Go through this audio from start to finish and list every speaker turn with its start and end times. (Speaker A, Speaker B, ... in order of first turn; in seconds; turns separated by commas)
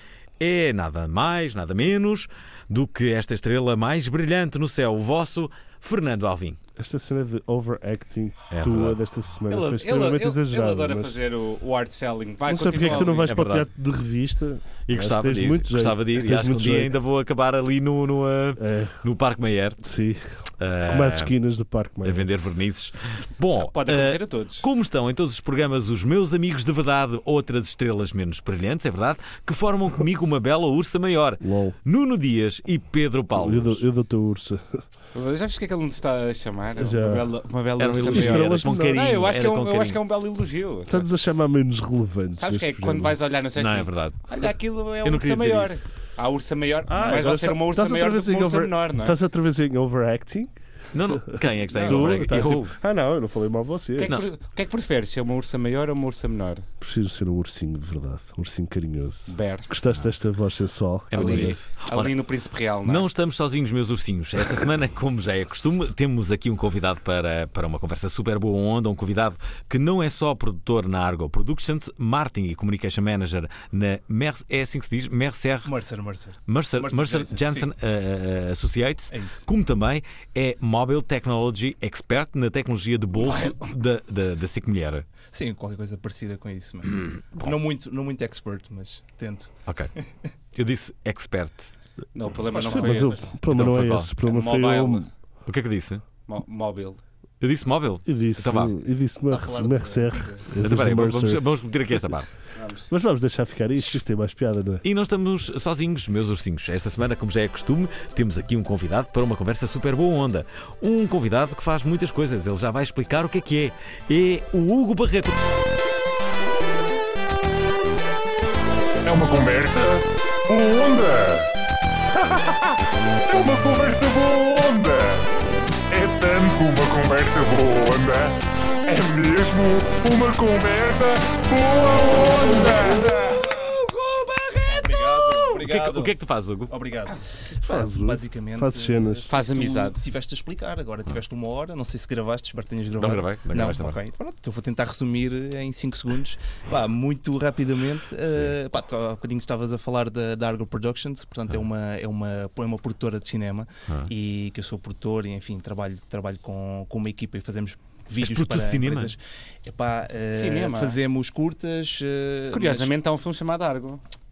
Speaker A: 0.4-6.6, Speaker B: 6.8-11.2, Speaker A: 8.5-9.0, Speaker C: 9.5-13.4, Speaker B: 12.4-16.9, Speaker A: 13.2-13.7, Speaker A: 14.9-19.8, Speaker B: 18.6-19.0, Speaker B: 19.8-22.3, Speaker A: 20.6-21.3, Speaker A: 22.0-33.8, Speaker C: 23.6-24.6, Speaker B: 31.4-31.8, Speaker B: 33.3-34.9, Speaker C: 35.1-41.0, Speaker B: 36.8-37.3, Speaker A: 37.8-40.0, Speaker B: 38.0-39.0, Speaker B: 40.9-43.2, Speaker C: 42.4-49.2, Speaker A: 43.5-44.2, Speaker A: 45.0-45.8, Speaker B: 46.9-50.5, Speaker A: 50.9-52.7, Speaker B: 51.1-54.1, Speaker C: 51.7-52.5, Speaker C: 54.0-56.6, Speaker B: 56.8-61.5, Speaker C: 59.3-59.7, Speaker A: 61.1-62.1, Speaker C: 61.1-63.1, Speaker A: 62.8-75.7, Speaker D: 75.6-77.7, Speaker A: 76.5-85.0, Speaker D: 79.1-79.5, Speaker C: 83.2-83.7, Speaker D: 85.3-90.0, Speaker A: 89.7-89.9, Speaker A: 90.5-91.7, Speaker C: 92.1-93.3, Speaker D: 92.5-93.3, Speaker B: 92.7-95.1, Speaker A: 93.5-94.1, Speaker C: 94.2-95.1, Speaker A: 95.5-96.0, Speaker C: 96.3-97.0, Speaker A: 97.4-98.7, Speaker B: 98.0-101.5, Speaker D: 99.3-100.5, Speaker A: 100.6-102.3, Speaker C: 102.5-102.9, Speaker B: 102.9-104.8, Speaker A: 104.8-115.4, Speaker E: 119.0-121.5, Speaker E: 122.2-125.3, Speaker E: 125.9-134.6, Speaker D: 134.6-136.2, Speaker A: 134.8-136.7, Speaker D: 136.7-162.9, Speaker B: 137.6-139.3, Speaker C: 139.3-140.0, Speaker A: 143.0-144.0, Speaker A: 158.2-159.1, Speaker C: 160.3-161.0, Speaker C: 162.5-164.0